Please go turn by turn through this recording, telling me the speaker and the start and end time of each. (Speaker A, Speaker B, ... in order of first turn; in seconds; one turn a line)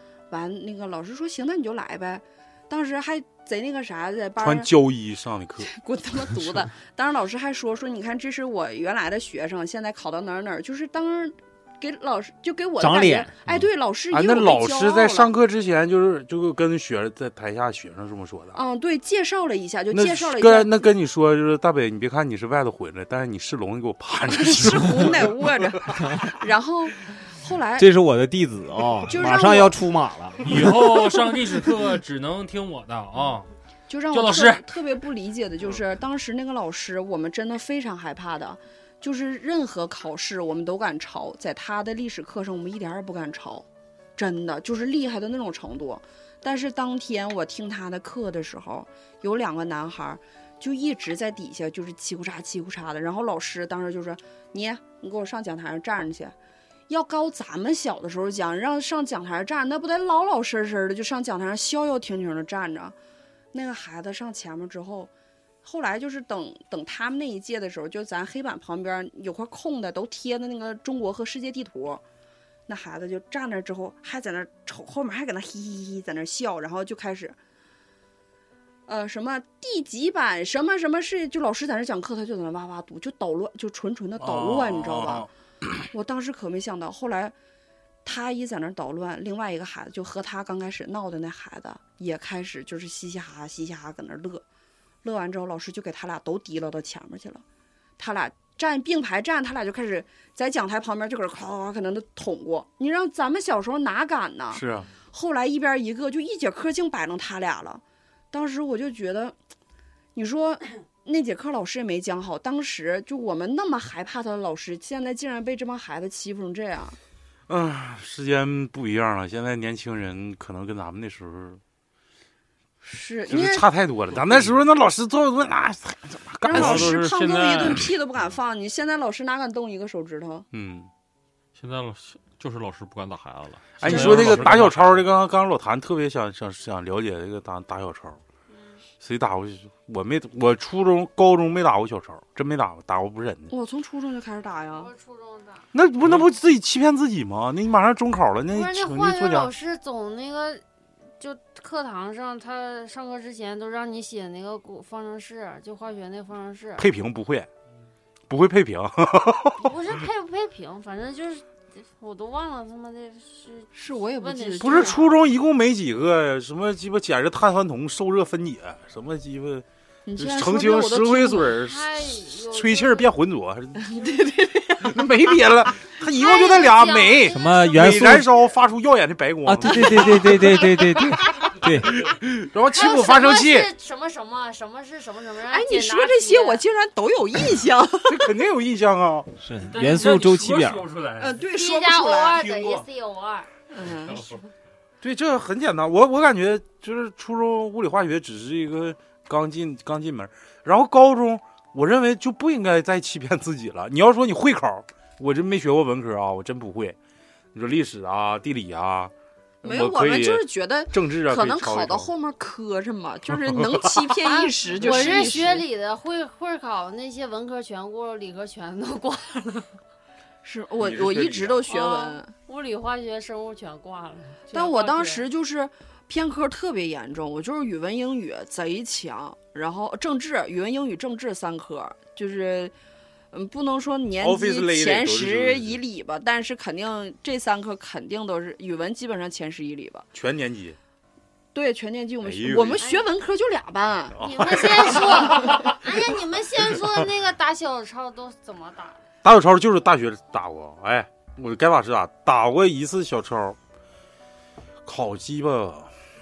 Speaker A: 0.3-4.7
Speaker B: 4.4-5.7
Speaker A: 5.6-15.3
Speaker C: 12.8-13.6
Speaker B: 14.1-18.6
Speaker A: 18.5-20.8
Speaker B: 19.9-25.5
Speaker A: 24.3-27.9
Speaker C: 27.8-30.9
Speaker A: 29.1-29.8
Speaker D: 30.4-33.5
Speaker A: 33.9-43.6
Speaker D: 34.1-34.6
Speaker A: 44.2-56.3
Speaker A: 56.9-62.9
Speaker A: 63.5-65.1
Speaker A: 65.6-72.0
Speaker A: 72.7-77.3
Speaker A: 78.9-85.3
Speaker B: 84.2-85.3
Speaker A: 85.9-87.3
Speaker A: 88.0-94.4
Speaker A: 95.0-97.4
Speaker A: 98.0-109.3
Speaker B: 104.5-104.9
Speaker A: 110.1-117.0
Speaker B: 117.5-121.6
Speaker A: 122.8-123.7
Speaker B: 123.3-127.0
Speaker A: 126.4-130.4
Speaker E: 126.5-127.8
Speaker B: 130.5-130.9
Speaker E: 131.6-135.0
Speaker B: 133.8-138.2
Speaker D: 133.9-134.3
Speaker F: 138.5-138.8
Speaker B: 139.0-143.5
Speaker A: 143.5-144.9
Speaker F: 144.7-145.7
Speaker B: 145.7-149.5
Speaker F: 148.5-150.6
Speaker F: 151.2-156.8
Speaker B: 156.8-157.5
Speaker B: 158.3-159.7
Speaker F: 159.6-165.0
Speaker A: 163.7-165.1
Speaker B: 164.6-169.6
Speaker A: 170.1-171.6
Speaker B: 170.2-173.9
Speaker F: 171.5-173.1
Speaker A: 173.8-175.1
Speaker B: 174.8-180.6
Speaker F: 176.1-178.0
Speaker C: 177.3-178.3
Speaker C: 179.4-182.1
Speaker A: 179.7-180.4
Speaker B: 182.0-183.7
Speaker F: 182.7-186.6
Speaker A: 185.5-188.3
Speaker B: 188.0-189.3
Speaker C: 189.3-190.9
Speaker D: 189.7-191.4
Speaker A: 191.2-192.5
Speaker F: 191.5-193.5
Speaker D: 192.4-192.8
Speaker A: 193.7-194.3
Speaker B: 195.0-207.0
Speaker B: 207.5-212.1
Speaker A: 209.6-215.6
Speaker B: 213.4-214.1
Speaker F: 214.2-219.7
Speaker B: 214.8-215.6
Speaker A: 220.4-222.3
Speaker B: 220.8-221.6
Speaker F: 221.7-225.2
Speaker A: 224.5-232.7
Speaker A: 233.3-240.1
Speaker B: 234.2-235.8
Speaker B: 240.1-240.8
Speaker A: 241.5-245.7
Speaker B: 242.2-242.8
Speaker F: 242.8-243.1
Speaker B: 244.1-245.4
Speaker F: 244.2-249.0
Speaker B: 249.2-253.6
Speaker B: 254.8-255.9